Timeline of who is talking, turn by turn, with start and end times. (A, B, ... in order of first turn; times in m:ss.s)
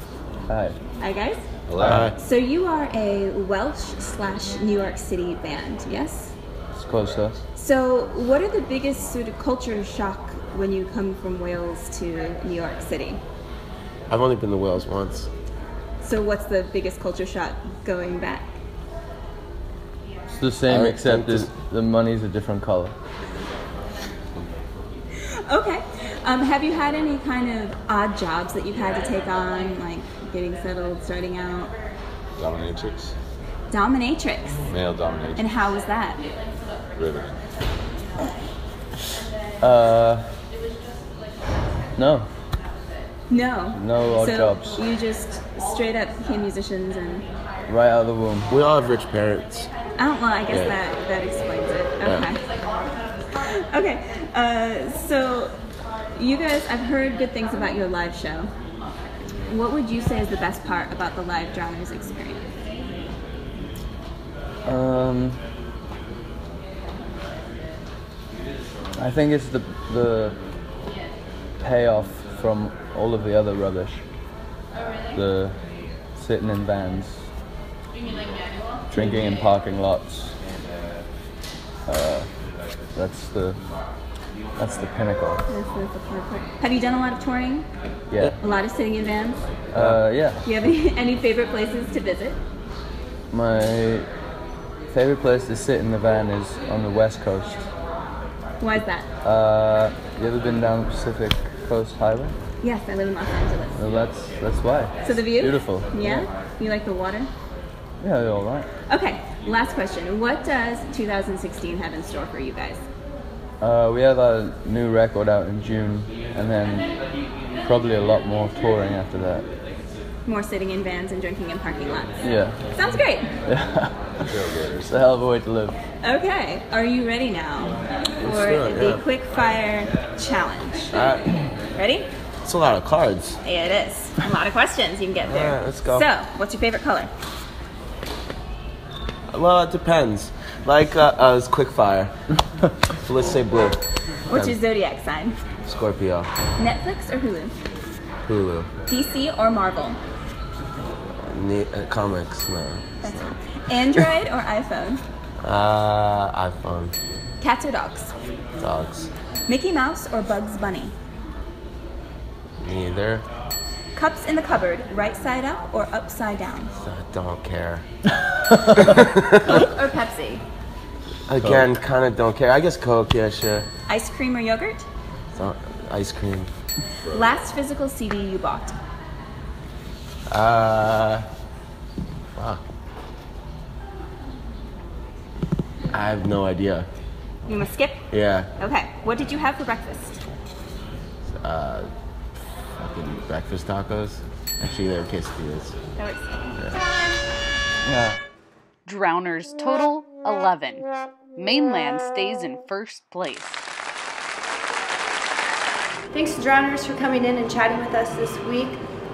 0:00.5-0:00.8 A
0:01.0-0:01.4 B
0:01.7-0:02.0 C
0:01.8-0:02.2 D
0:02.2-0:06.3 B
0:06.8-0:07.4 A
0:07.6-0:13.2 B
0:14.1-0:15.3 D
0:16.0-0:18.5 B
0:20.3-0:23.0 A
0:20.7-0:21.5 D
0:25.2-0:31.7 B
0:32.4-0:33.2 C
0:33.7-0:34.6 B
0:34.6-0:35.5 C
0:35.4-0:36.2 B
0:36.9-0:37.4 C
0:39.6-0:40.3 A
0:42.0-0:42.3 A
0:43.3-0:47.3 B
0:43.7-0:44.8 A
0:47.7-0:48.5 A
0:48.5-0:49.7 D
0:50.0-0:52.5 B
0:50.5-0:50.8 D
0:52.0-0:52.3 D
0:53.3-0:55.6 B
0:56.2-0:58.5 B
0:59.5-1:02.5 B
1:04.6-1:05.4 A
1:09.0-1:10.4 A
1:11.6-1:14.0 A
1:15.1-1:17.3 A
1:18.9-1:20.4 A
1:21.8-1:22.3 A
1:22.9-1:23.6 A
1:24.6-1:25.4 A
1:25.5-1:27.7 B
1:28.1-1:28.4 A
1:28.4-1:29.4 B
1:29.7-1:30.4 A
1:30.4-1:32.4 B
1:33.3-1:34.1 A
1:34.9-1:37.7 A
1:38.6-1:39.1 B
1:39.2-1:42.4 A
1:42.6-1:43.8 B
1:43.8-1:46.3 A
1:45.0-1:47.3 B
1:48.0-1:48.7 A
1:48.9-1:52.9 B
1:53.6-1:56.9 A
1:57.6-1:59.5 A
2:00.2-2:03.3 B
2:02.2-2:02.6 A
2:03.4-2:05.8 A
2:04.3-2:04.9 C
2:06.0-2:12.1 B
2:08.2-2:09.0 D
2:10.9-2:11.3 D
2:12.4-2:13.4 D
2:13.4-2:17.1 B
2:15.2-2:16.1 D
2:19.3-2:22.1 D
2:23.0-2:24.6 D
2:24.3-2:25.4 B
2:25.6-2:26.3 D
2:26.6-2:27.5 B
2:28.2-2:28.7 D
2:28.9-2:30.0 B
2:31.1-2:33.4 D
2:33.0-2:35.0 B
2:35.4-2:37.0 D
2:37.4-2:38.1 B
2:38.6-2:39.1 D
2:39.5-2:40.9 B
2:42.6-2:43.2 D
2:44.0-2:46.7 B
2:46.8-2:47.8 D
2:48.8-2:49.3 D
2:49.3-2:50.4 B
2:51.3-2:53.7 D
2:53.9-2:54.9 B
2:55.4-2:56.5 D
2:57.1-2:58.8 B
3:00.3-3:01.3 D
3:02.4-3:02.6 D
3:05.9-3:06.9 D
3:07.5-3:08.1 B
3:08.1-3:08.5 D
3:08.6-3:10.2 B
3:11.3-3:11.9 D
3:12.8-3:15.7 D
3:16.0-3:16.4 B
3:17.8-3:18.2 A
3:18.9-3:23.6 E
3:26.1-3:28.8 F